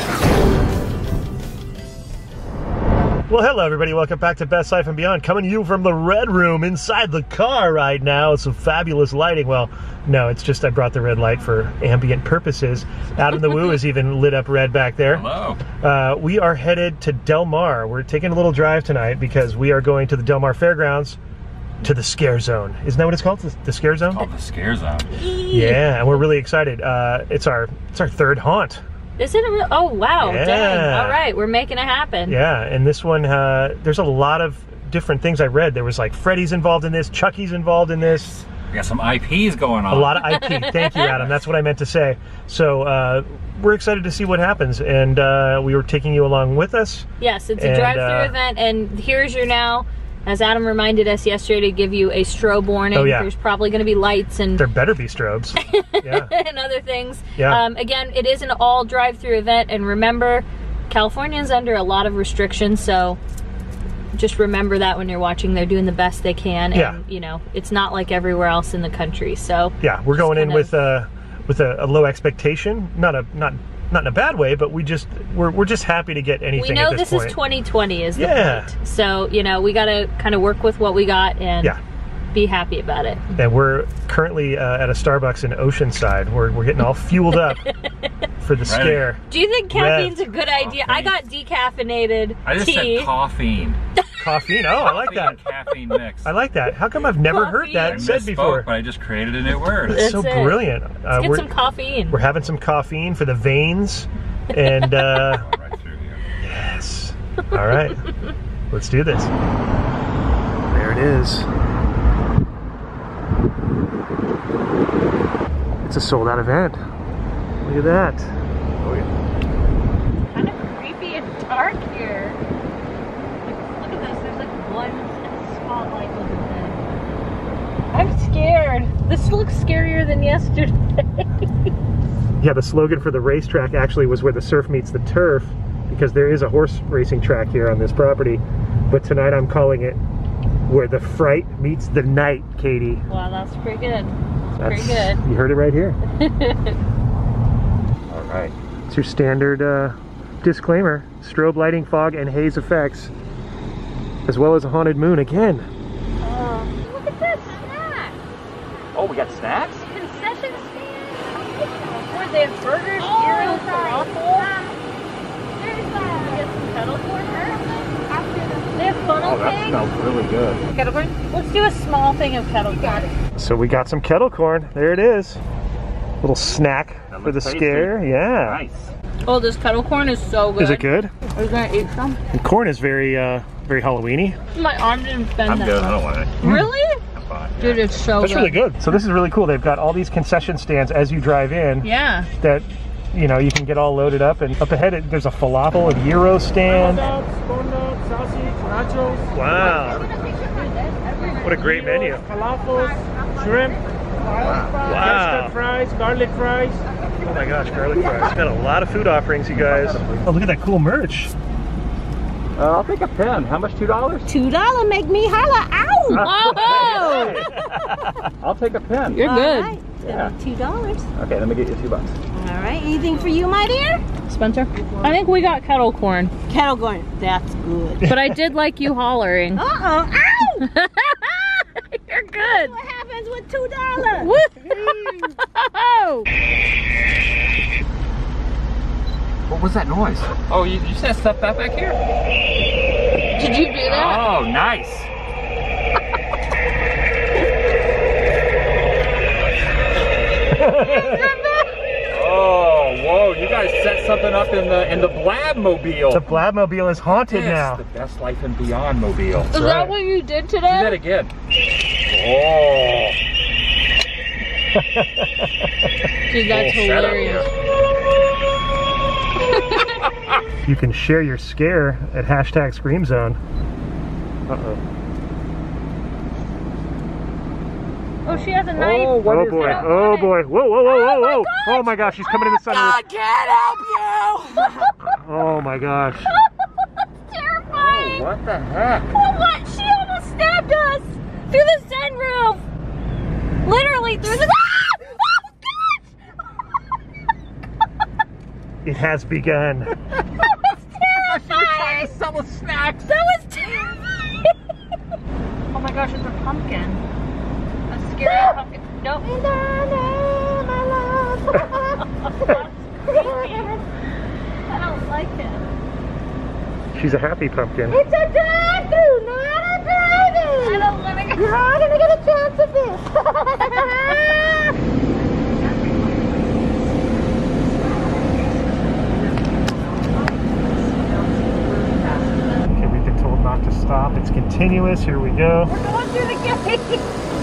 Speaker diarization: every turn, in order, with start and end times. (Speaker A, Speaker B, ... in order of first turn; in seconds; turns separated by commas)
Speaker A: 3.3-15.3, Speaker B: 15.1-15.6, Speaker A: 15.8-21.2, Speaker A: 21.8-24.3, Speaker B: 24.1-25.1, Speaker C: 25.1-26.1, Speaker A: 25.5-28.8, Speaker C: 29.2-32.4, Speaker A: 30.2-31.2, Speaker A: 32.3-38.4, Speaker B: 38.5-40.6, Speaker A: 39.9-47.1, Speaker C: 40.3-41.1, Speaker C: 47.2-54.7, Speaker A: 47.6-48.3, Speaker A: 52.9-53.3, Speaker A: 54.6-56.3, Speaker C: 55.6-63.2, Speaker A: 57.4-57.6, Speaker C: 64.1-70.8, Speaker A: 66.7-67.0, Speaker A: 69.8-77.4, Speaker C: 76.5-81.8, Speaker A: 78.2-78.7, Speaker C: 82.3-83.4, Speaker A: 83.4-87.6, Speaker A: 88.4-90.3, Speaker B: 88.6-89.1, Speaker C: 89.3-93.1, Speaker B: 90.6-91.2, Speaker B: 92.5-93.8, Speaker C: 94.0-94.2, Speaker A: 94.2-95.4, Speaker B: 94.8-96.3, Speaker A: 96.2-98.7, Speaker C: 97.2-98.1, Speaker B: 97.8-100.0, Speaker A: 99.8-101.5, Speaker C: 99.9-102.2, Speaker A: 102.1-105.5, Speaker C: 104.5-105.3, Speaker B: 105.4-106.2, Speaker A: 106.4-108.0, Speaker A: 108.7-109.3, Speaker A: 110.7-111.5, Speaker A: 115.8-116.8, Speaker A: 117.6-118.3, Speaker B: 118.8-119.1, Speaker C: 120.2-122.4, Speaker C: 123.5-126.8, Speaker C: 127.9-131.3, Speaker A: 132.4-140.0, Speaker A: 140.7-143.0, Speaker C: 143.1-145.2, Speaker A: 144.6-146.0, Speaker C: 146.1-146.8, Speaker B: 148.1-148.5, Speaker A: 148.9-153.1, Speaker A: 154.3-155.7, Speaker C: 156.2-158.2, Speaker B: 158.9-159.9, Speaker C: 159.9-161.4, Speaker D: 161.2-162.4, Speaker C: 162.1-164.6, Speaker D: 163.0-164.8, Speaker D: 165.6-166.5, Speaker C: 166.0-167.7, Speaker D: 167.3-169.2, Speaker C: 168.8-169.8, Speaker B: 169.2-170.7, Speaker C: 170.7-173.1, Speaker D: 172.7-173.1, Speaker A: 173.4-175.4, Speaker A: 176.2-178.6, Speaker B: 177.1-178.9, Speaker C: 179.3-180.9, Speaker A: 180.6-181.1, Speaker D: 181.3-182.2, Speaker A: 182.3-184.4, Speaker C: 184.5-187.0, Speaker B: 185.4-186.4, Speaker A: 186.4-186.7, Speaker B: 187.1-188.1, Speaker C: 187.6-188.7, Speaker A: 188.2-197.1, Speaker C: 191.8-192.3, Speaker E: 196.7-199.4, Speaker A: 199.3-200.1, Speaker D: 199.6-201.6, Speaker A: 201.4-202.2, Speaker E: 201.6-206.9, Speaker B: 204.4-204.8, Speaker A: 204.8-205.6, Speaker A: 207.2-211.3, Speaker B: 209.5-210.4, Speaker B: 212.6-214.3, Speaker D: 214.3-217.3, Speaker C: 216.1-217.5, Speaker B: 216.1-217.5, Speaker A: 217.6-217.9, Speaker B: 218.4-219.3, Speaker C: 219.1-219.8, Speaker D: 219.2-221.1, Speaker B: 220.0-220.4, Speaker B: 221.2-222.2, Speaker D: 222.3-224.1, Speaker C: 224.3-226.3, Speaker D: 224.8-225.2, Speaker D: 226.5-228.1, Speaker A: 228.0-228.4, Speaker C: 228.0-229.7, Speaker D: 229.6-230.7, Speaker C: 230.6-232.8, Speaker D: 232.4-235.4, Speaker C: 234.0-236.0, Speaker D: 235.9-236.2, Speaker B: 239.5-242.0, Speaker C: 243.3-244.3, Speaker B: 243.8-245.1, Speaker A: 250.5-251.3, Speaker C: 250.6-251.8, Speaker B: 252.1-256.3, Speaker A: 256.1-257.8, Speaker B: 257.2-259.6, Speaker C: 259.5-261.0, Speaker A: 259.5-260.0, Speaker B: 260.6-261.3, Speaker B: 262.1-263.2, Speaker A: 264.7-265.5, Speaker C: 266.3-267.5, Speaker B: 266.5-267.5, Speaker C: 269.5-270.0, Speaker A: 270.6-273.4, Speaker A: 274.5-274.8, Speaker C: 278.2-284.9, Speaker B: 278.7-279.9, Speaker A: 279.2-283.0, Speaker A: 285.1-286.3, Speaker C: 287.2-288.3, Speaker B: 287.7-289.2, Speaker C: 289.1-292.6, Speaker C: 293.6-295.4, Speaker A: 298.8-299.9, Speaker C: 300.6-302.2, Speaker B: 301.0-303.1, Speaker C: 303.1-304.1, Speaker C: 305.7-307.0, Speaker C: 307.9-309.3, Speaker D: 308.2-308.6, Speaker D: 309.2-313.8, Speaker C: 312.2-313.9, Speaker C: 314.7-315.7, Speaker A: 316.9-318.0, Speaker D: 317.9-324.8, Speaker C: 320.6-321.6, Speaker D: 325.8-326.9, Speaker D: 327.6-332.6, Speaker C: 330.6-331.3, Speaker C: 331.9-332.6, Speaker A: 332.7-335.7, Speaker C: 335.6-337.1